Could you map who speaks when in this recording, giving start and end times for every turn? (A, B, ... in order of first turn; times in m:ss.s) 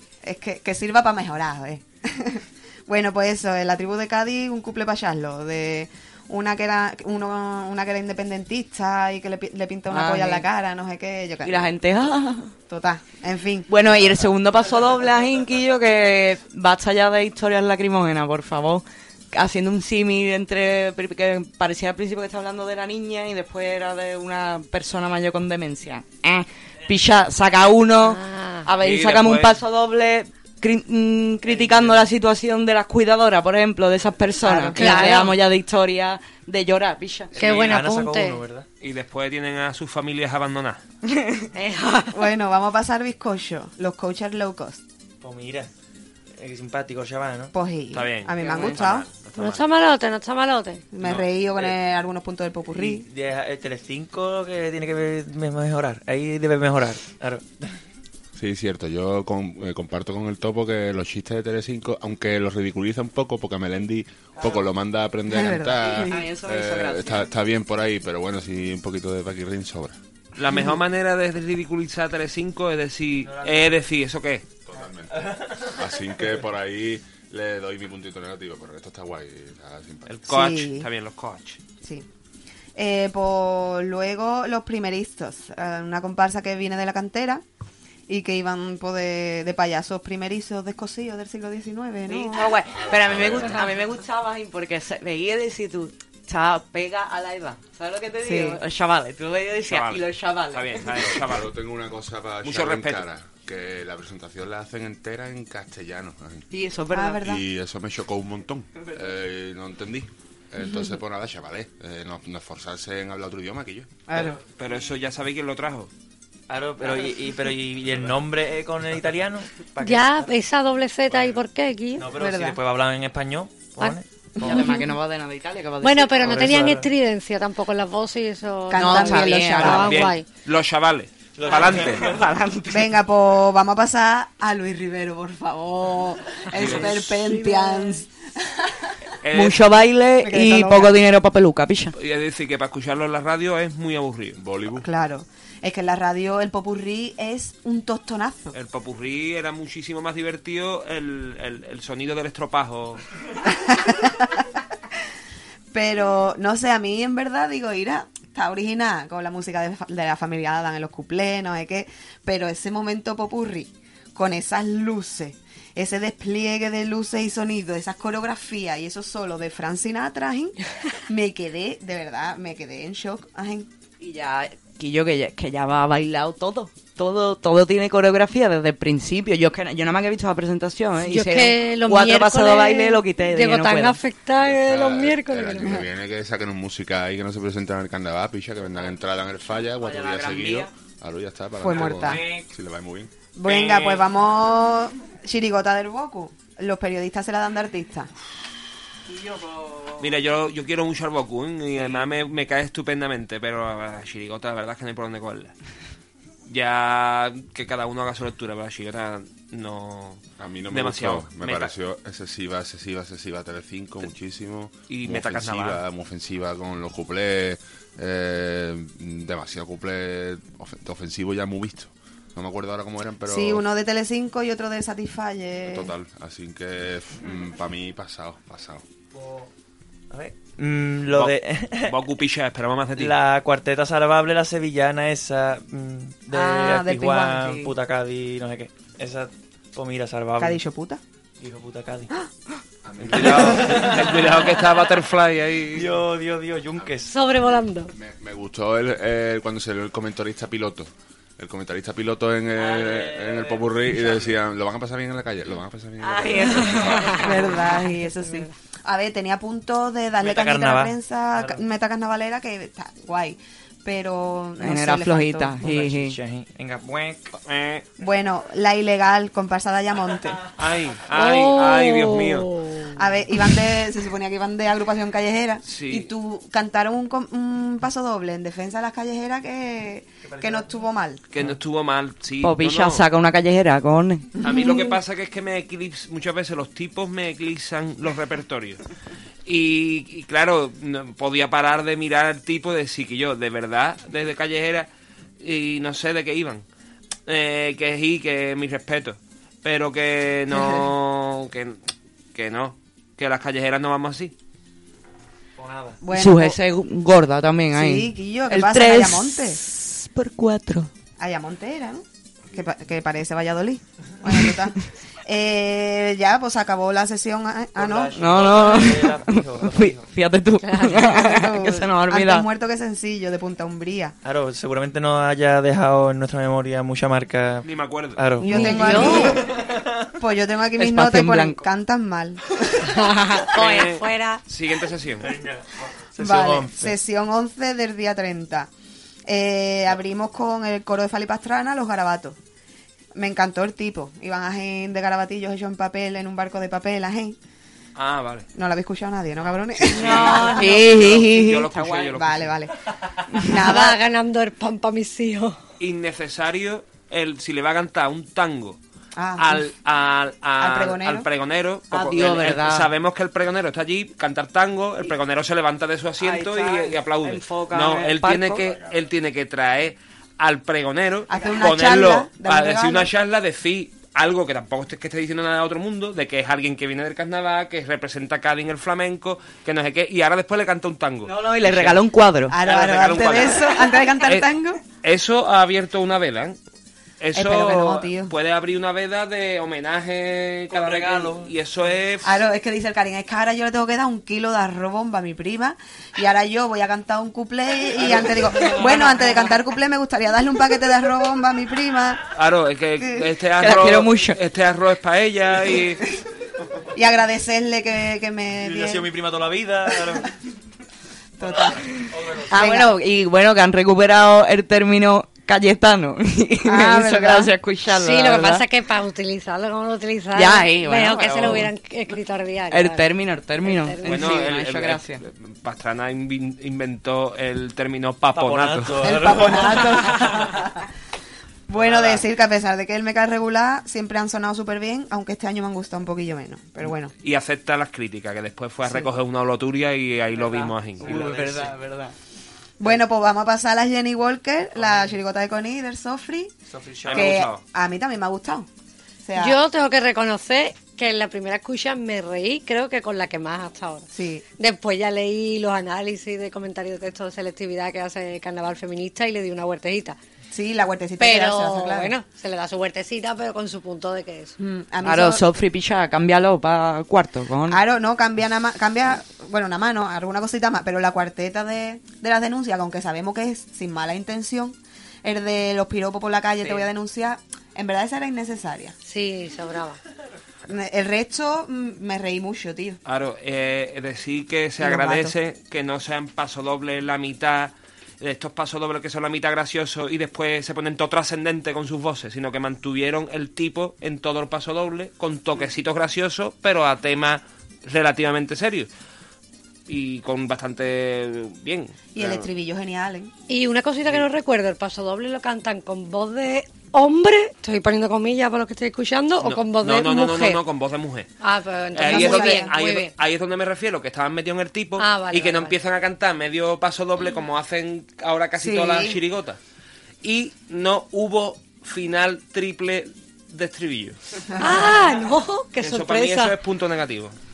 0:00.2-0:11.7 A
0:09.9-0:10.5 B
0:11.4-0:12.5 B
0:12.7-0:13.7 A
0:13.7-0:37.3 B
0:28.0-0:28.7 C
0:28.8-0:29.6 D
0:31.5-0:32.1 E
0:34.4-0:35.1 A
0:34.8-0:35.3 C
0:37.3-0:38.7 E
0:37.4-0:38.4 C
0:37.4-0:37.7 D
0:38.8-0:40.8 D
0:41.5-0:42.2 C
0:42.1-0:44.8 A
0:45.2-0:45.7 E
0:46.4-0:47.5 E
0:47.5-0:49.1 A
0:47.9-0:49.7 D
0:49.4-0:50.8 C
0:50.9-0:53.0 A
0:51.0-0:51.3 D
0:52.7-0:57.7 E
0:58.4-1:10.0 F
1:04.4-1:04.7 E
1:05.3-1:06.2 A
1:05.9-1:07.3 B
1:10.4-1:14.4 D
1:13.2-1:13.7 E
1:14.7-1:20.2 F
1:15.1-1:15.8 E
1:20.1-1:21.6 D
1:20.3-1:20.9 A
1:21.8-1:22.1 A
1:22.8-1:27.4 A
1:28.1-1:32.5 A
1:32.1-1:41.1 B
1:32.7-1:33.7 F
1:38.2-1:38.6 A
1:39.7-1:41.5 D
1:41.1-1:46.5 F
1:42.4-1:43.1 D
1:46.5-1:47.2 B
1:46.9-1:47.4 A
1:47.2-1:53.9 F
1:54.1-1:54.4 A
1:54.4-1:55.9 D
1:56.5-2:00.3 E
1:59.8-2:02.1 C
2:02.0-2:04.6 E
2:02.1-2:02.6 A
2:04.4-2:06.7 B
2:04.4-2:04.7 A
2:04.5-2:04.8 C
2:05.8-2:10.3 C
2:06.2-2:06.9 E
2:08.7-2:09.9 A
2:08.8-2:10.0 B
2:09.7-2:12.1 D
2:11.4-2:12.2 E
2:11.9-2:13.0 B
2:12.7-2:18.6 A
2:16.5-2:17.1 D
2:17.3-2:18.0 C
2:19.2-2:19.6 D
2:19.3-2:21.9 B
2:20.2-2:21.0 A
2:22.0-2:24.4 D
2:24.4-2:24.9 F
2:24.8-2:28.6 A
2:28.5-2:33.0 D
2:33.5-2:34.3 A
2:35.7-2:53.7 A
2:54.0-3:04.0 B
3:01.0-3:05.8 C
3:04.4-3:13.1 F
3:09.8-3:10.7 B
3:11.6-3:12.2 A
3:12.0-3:12.4 B
3:13.4-3:18.1 A
3:13.4-3:14.1 D
3:20.0-3:25.5 D
3:26.5-3:31.7 D
3:30.4-3:43.6 F
3:34.9-3:35.8 D
3:43.2-3:45.9 A
3:45.7-3:48.8 F
3:49.1-3:49.5 E
3:50.1-3:52.0 E
3:51.1-3:53.2 D
3:53.0-4:00.6 E
3:56.3-3:57.7 A
4:00.4-4:01.0 A
4:01.4-4:02.1 E
4:02.8-4:03.9 F
4:03.0-4:04.3 E
4:03.1-4:05.9 D
4:05.7-4:07.1 E
4:07.1-4:07.9 C
4:07.9-4:17.6 F
4:12.6-4:14.4 E
4:16.0-4:17.5 B
4:17.2-4:25.6 A
4:20.2-4:21.6 E
4:24.6-4:26.2 B
4:25.6-4:27.3 E
4:27.4-4:27.9 D
4:28.0-4:30.4 A
4:30.6-4:32.5 D
4:31.1-4:32.9 C
4:33.0-4:41.2 A
4:35.6-4:36.1 D
4:40.2-4:40.8 E
4:41.3-4:43.0 D
4:42.4-4:44.3 B
4:44.4-4:48.8 D
4:49.5-4:54.9 D
4:55.4-4:56.6 D
4:57.3-5:01.8 D
5:00.5-5:00.9 A
5:02.3-5:04.3 D
5:05.6-5:06.0 E
5:06.0-5:06.6 A
5:06.1-5:10.9 B
5:07.7-5:09.6 A
5:11.2-5:18.3 A
5:17.8-5:20.1 E
5:18.2-5:22.5 B
5:20.7-5:24.2 A
5:24.2-5:28.7 E
5:27.6-5:28.2 D
5:28.4-5:29.6 A
5:28.4-5:29.4 C
5:28.5-5:29.3 B
5:30.2-5:32.8 A
5:30.8-5:31.6 B
5:32.9-5:34.4 C
5:33.5-5:35.4 D
5:35.2-5:37.0 E
5:36.2-5:38.7 A
5:39.3-5:42.4 A
5:43.2-5:47.4 A
5:48.0-5:48.5 D
5:48.6-5:50.8 A
5:49.9-5:52.1 B
5:49.9-5:52.6 D
5:52.2-5:52.7 A
5:53.4-5:54.0 A
5:53.5-5:55.6 C
5:55.8-5:58.8 D
5:59.2-5:59.7 A
5:59.4-6:22.0 D
6:00.6-6:01.3 A
6:01.9-6:02.9 B
6:06.2-6:08.8 B
6:11.3-6:13.1 A
6:21.2-6:22.6 B
6:22.5-6:24.8 A
6:22.6-6:26.6 D
6:27.2-6:32.4 D
6:27.4-6:28.3 A
6:30.7-6:31.5 E
6:32.2-6:42.2 A
6:42.4-6:46.0 D
6:43.6-6:44.4 B
6:46.9-6:49.1 A
6:48.6-6:50.3 E
6:51.4-6:51.9 A
6:51.4-6:52.6 E
6:52.5-6:58.6 B
6:52.5-6:53.0 A
6:56.6-6:57.5 A
6:57.9-7:03.1 C
7:00.4-7:01.7 B
7:02.7-7:05.2 B
7:03.6-7:04.4 C
7:04.0-7:09.5 D
7:08.3-7:10.5 E
7:09.0-7:10.8 A
7:11.7-7:17.1 A
7:11.8-7:12.2 E
7:17.2-7:21.3 D
7:18.8-7:19.1 A
7:20.4-7:22.1 B
7:21.0-7:21.8 E
7:22.8-7:26.5 A
7:24.8-7:25.2 E
7:26.7-7:27.4 E
7:27.1-7:28.7 A
7:27.1-7:27.6 D
7:29.2-7:29.6 A
7:29.4-7:34.1 C
7:34.1-7:34.4 A
7:34.6-7:40.2 C
7:40.5-7:42.1 A
7:41.2-7:44.6 C
7:44.6-7:45.4 A
7:45.0-7:47.8 B
7:47.7-7:59.0 A
7:56.6-7:56.9 B
7:59.0-8:00.0 C
8:00.7-8:03.0 A
8:03.1-8:18.9 D
8:04.8-8:05.3 A
8:19.9-8:22.5 D
8:22.1-8:23.3 A
8:23.5-8:30.6 C
8:29.4-8:31.3 D
8:31.4-8:33.1 C
8:31.9-8:39.6 D
8:32.0-8:32.7 A
8:35.0-8:35.8 C
8:38.6-8:39.2 A
8:40.2-8:44.2 D
8:44.6-8:46.6 C
8:45.8-8:47.4 D